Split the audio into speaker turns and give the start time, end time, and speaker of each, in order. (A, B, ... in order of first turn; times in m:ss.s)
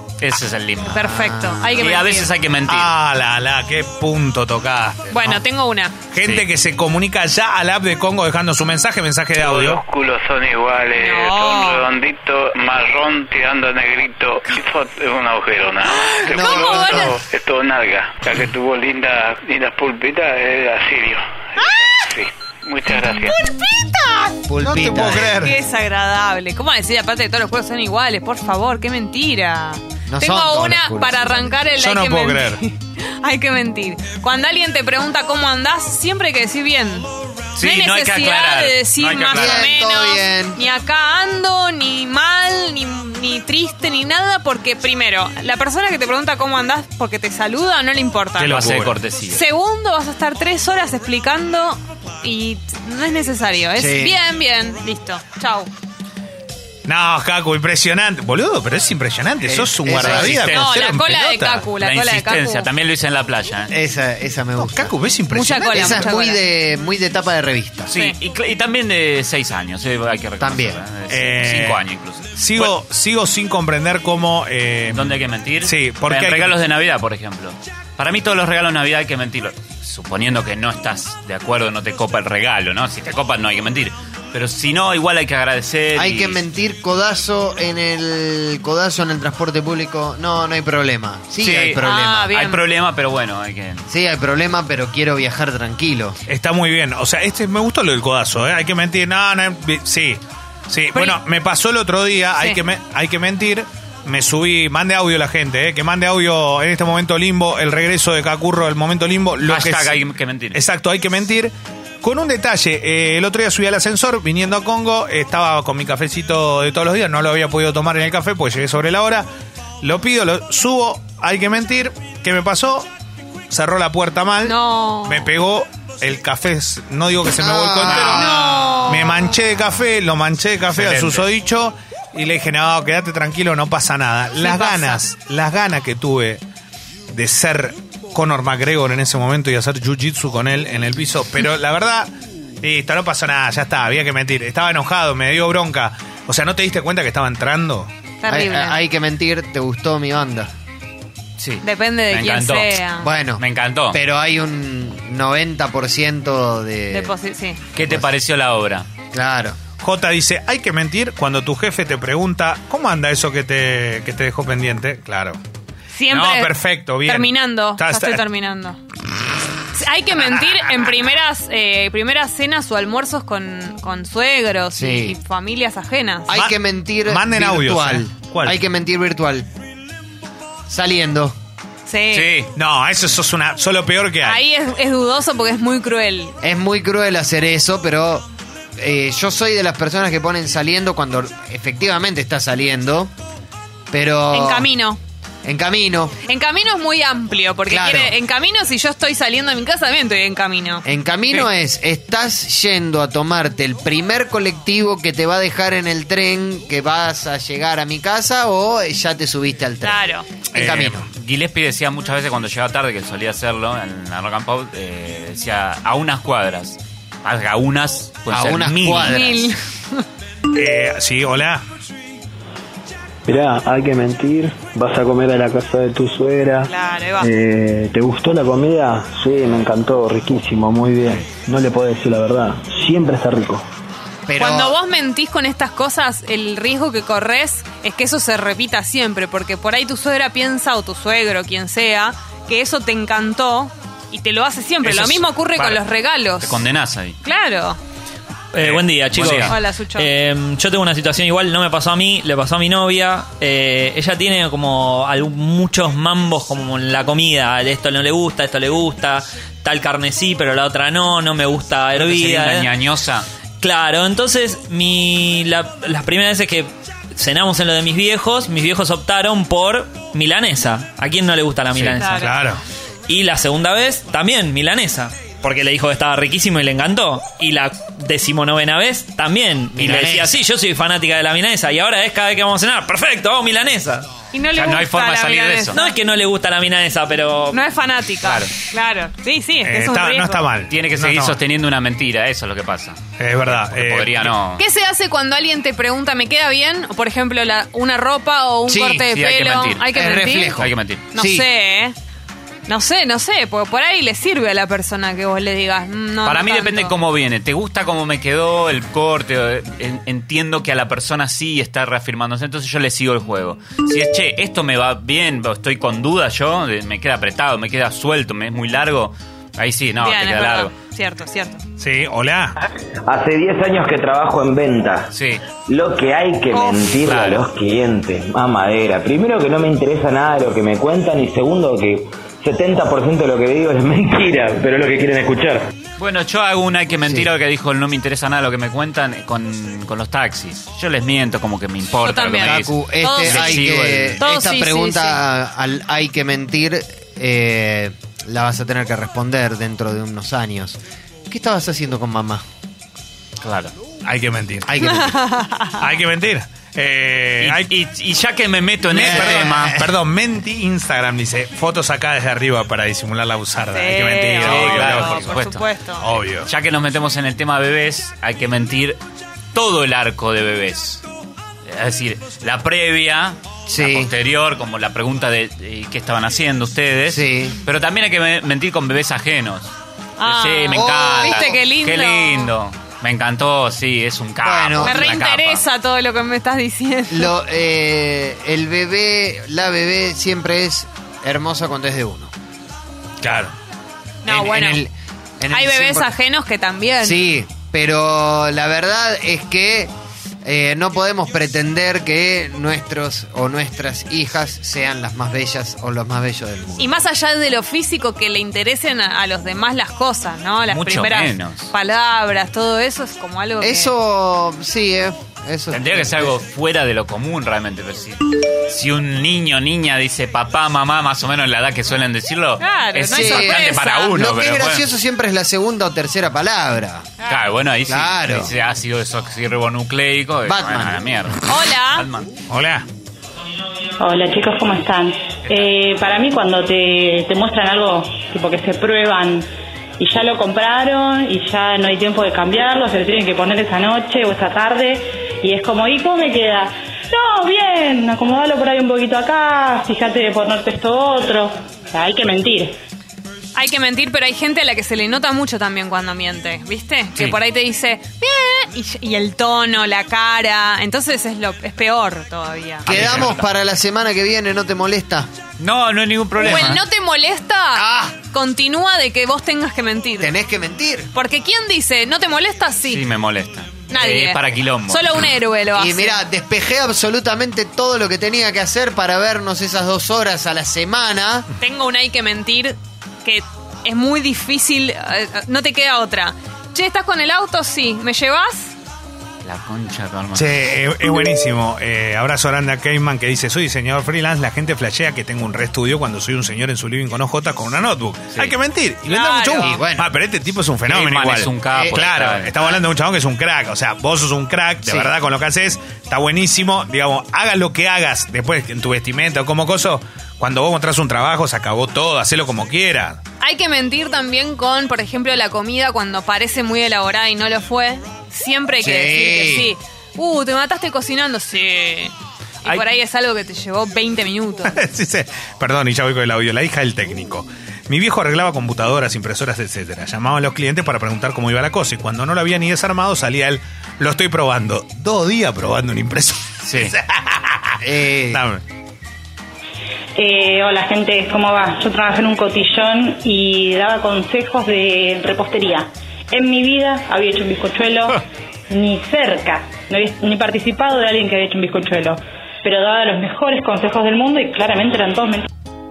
0:00.2-0:01.0 A
0:00.9-0:02.3 B
0:00.9-0:01.8 C
0:01.8-0:02.9 A
0:02.7-0:05.4 D
0:05.1-0:06.0 B
0:06.1-0:09.8 D
0:09.4-0:23.4 E
0:11.0-0:11.9 B
0:15.9-0:17.2 B
0:16.4-0:16.8 C
0:21.6-0:22.0 B
0:22.9-0:24.3 B
0:24.5-0:25.3 C
0:24.6-0:25.6 D
0:25.0-0:48.6 B
0:30.1-0:31.6 C
0:31.8-0:32.6 D
0:37.6-0:39.7 A
0:39.3-0:40.6 C
0:48.4-0:49.0 D
0:48.4-0:49.4 A
0:49.3-0:55.7 B
0:53.8-0:54.2 C
0:56.9-1:01.7 D
0:59.4-1:00.5 C
0:59.9-1:00.7 A
1:00.5-1:02.7 B
1:01.8-1:03.7 A
1:03.7-1:04.9 C
1:04.6-1:06.1 D
1:05.3-1:06.4 B
1:05.7-1:07.9 C
1:07.9-1:12.7 A
1:10.4-1:10.8 C
1:11.1-1:11.8 D
1:12.4-1:16.6 D
1:14.9-1:26.4 A
1:25.9-1:32.3 C
1:31.4-1:31.8 A
1:31.8-1:32.6 B
1:32.3-1:33.8 A
1:33.9-1:36.2 C
1:36.3-1:50.0 D
1:40.9-1:41.2 B
1:49.5-1:50.6 A
1:50.5-1:59.3 D
1:59.8-2:02.9 D
2:03.5-2:08.3 D
2:04.4-2:05.3 B
2:07.3-2:08.8 C
2:07.9-2:08.2 A
2:08.1-2:09.3 B
2:08.9-2:16.4 D
2:10.7-2:11.2 A
2:14.4-2:15.0 B
2:17.1-2:27.9 D
2:28.2-2:28.8 B
2:28.3-2:30.5 C
2:31.4-2:32.8 A
2:31.6-2:33.1 B
2:33.0-2:37.1 C
2:33.4-2:34.0 A
2:36.9-2:37.6 B
2:37.8-2:38.9 A
2:37.8-2:38.1 C
2:39.1-2:39.6 C
2:39.8-2:45.4 D
2:45.9-2:48.8 B
2:46.1-2:48.2 D
2:49.7-2:56.3 B
2:54.8-2:55.2 C
2:56.3-2:59.5 C
2:56.3-2:58.6 D
3:00.7-3:01.4 C
3:01.9-3:02.3 B
3:02.1-3:02.5 A
3:02.6-3:04.4 D
3:04.2-3:06.4 B
3:06.4-3:13.1 C
3:13.9-3:14.7 C
3:14.3-3:15.0 B
3:15.4-3:16.2 C
3:16.2-3:20.8 B
3:17.7-3:18.1 C
3:20.9-3:31.1 C
3:29.8-3:30.3 B
3:30.5-3:31.0 D
3:31.1-3:39.2 A
3:38.3-3:39.5 C
3:39.1-3:40.0 B
3:40.5-3:41.6 D
3:43.3-3:46.6 F
3:46.6-3:47.3 B
3:47.4-3:53.6 F
3:54.3-3:54.8 C
3:54.4-4:06.6 B
4:04.8-4:07.2 A
4:07.2-4:07.8 B
4:08.5-4:22.7 G
4:08.6-4:09.6 A
4:09.4-4:10.1 B
4:21.9-4:23.3 A
4:23.6-4:32.2 G
4:31.7-4:32.0 A
4:32.0-4:32.4 B
4:32.2-4:32.6 D
4:33.1-4:44.1 G
4:39.7-4:40.3 C
4:44.3-4:46.0 B
4:44.6-4:45.8 A
4:45.8-4:47.6 G
4:47.5-4:50.5 B
4:48.2-4:48.5 A
4:49.6-4:51.4 D
4:50.7-4:54.6 A
4:53.2-4:54.4 D
4:54.6-5:00.6 B
4:58.7-4:59.1 C
4:59.1-4:59.9 A
4:59.9-5:01.5 C
5:00.6-5:01.1 A
5:01.1-5:02.0 B
5:02.7-5:06.9 B
5:06.2-5:20.7 A
5:20.0-5:21.6 B
5:21.8-5:22.5 D
5:23.0-5:25.1 H
5:25.1-5:25.4 A
5:25.7-5:35.7 H
5:26.5-5:26.9 B
5:26.9-5:27.5 A
5:36.0-5:44.2 A
5:42.0-5:45.2 B
5:42.4-5:50.8 C
5:51.3-5:52.4 C
5:53.4-5:53.7 A
5:54.0-5:54.9 D
5:54.7-5:55.1 C
5:55.0-5:55.8 B
5:55.8-5:57.7 D
5:57.4-5:59.8 A
5:58.9-6:05.3 D
5:59.0-5:59.9 C
6:03.7-6:06.2 B
6:04.4-6:05.6 A
6:06.0-6:06.5 D
6:06.4-6:09.0 A
6:09.5-6:11.0 A
6:11.7-6:19.7 A
6:13.7-6:14.1 C
6:17.1-6:17.6 C
6:20.2-6:22.5 B
6:20.2-6:25.6 A
6:20.7-6:21.6 C
6:24.4-6:25.3 C
6:24.8-6:27.3 B
6:27.1-6:32.3 C
6:33.2-6:33.5 D
6:34.2-6:34.8 B
6:34.3-6:36.2 C
6:35.5-6:37.2 B
6:37.0-6:39.9 C
6:40.4-6:46.9 C
6:46.8-6:53.9 B
6:50.7-6:51.7 A
6:53.6-6:56.4 C
6:55.7-7:04.8 A
7:02.6-7:04.2 B
7:03.1-7:07.1 C
7:07.3-7:12.3 A
7:07.9-7:08.5 C
7:10.5-7:11.0 C
7:11.5-7:12.1 B
7:12.5-7:12.8 D
7:14.0-7:19.5 I
7:15.4-7:15.7 A
7:20.0-7:32.8 I
7:33.6-7:43.2 B
7:42.9-7:43.5 A
7:42.9-7:45.3 C
7:45.6-7:46.8 A
7:46.4-7:50.3 B
7:46.4-7:46.8 C
7:47.7-7:48.2 C
7:50.2-7:51.1 C
7:51.1-7:53.0 B
7:52.9-7:55.3 A
7:53.9-7:56.2 B
7:55.7-8:01.5 C
8:01.6-8:08.7 B
8:09.4-8:10.6 A
8:10.3-8:33.2 D
8:19.1-8:19.8 B
8:19.6-8:20.0 C
8:20.9-8:22.6 A
8:21.7-8:22.1 C
8:24.8-8:25.1 C
8:33.4-8:42.1 B
8:38.8-8:39.7 C
8:42.6-8:44.8 B
8:44.7-8:58.6 D
8:56.6-8:56.9 A
8:57.8-8:58.4 C
9:00.2-9:15.5 I